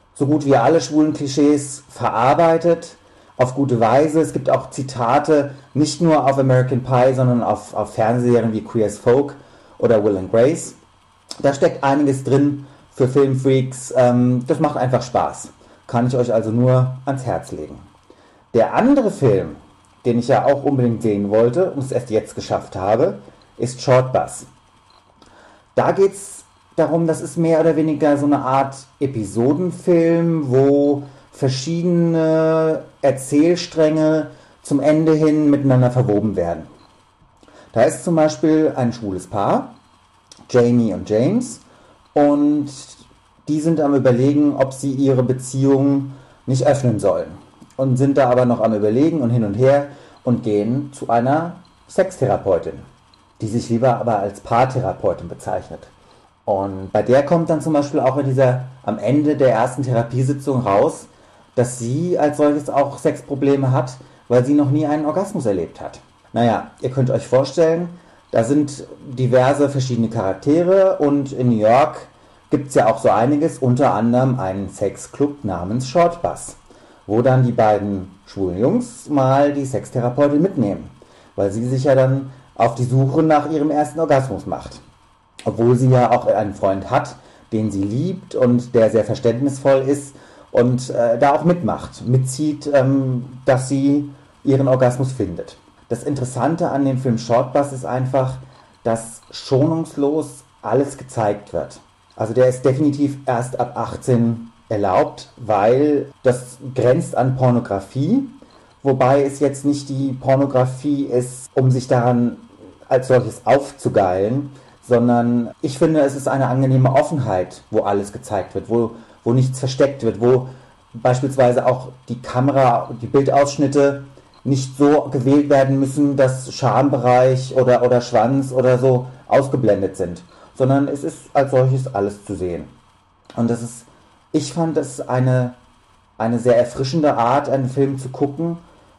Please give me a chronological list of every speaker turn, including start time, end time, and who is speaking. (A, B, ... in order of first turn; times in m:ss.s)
0:00.1-0:10.8 A
0:11.4-0:17.9 A
0:18.5-0:24.5 A
0:25.7-0:36.7 A
0:37.7-0:39.8 A
0:40.5-0:41.6 A
0:42.1-0:52.8 A
0:53.4-0:55.9 A
0:56.4-1:24.8 A
1:25.4-2:12.7 A
2:13.4-2:15.6 A
2:16.2-2:18.6 A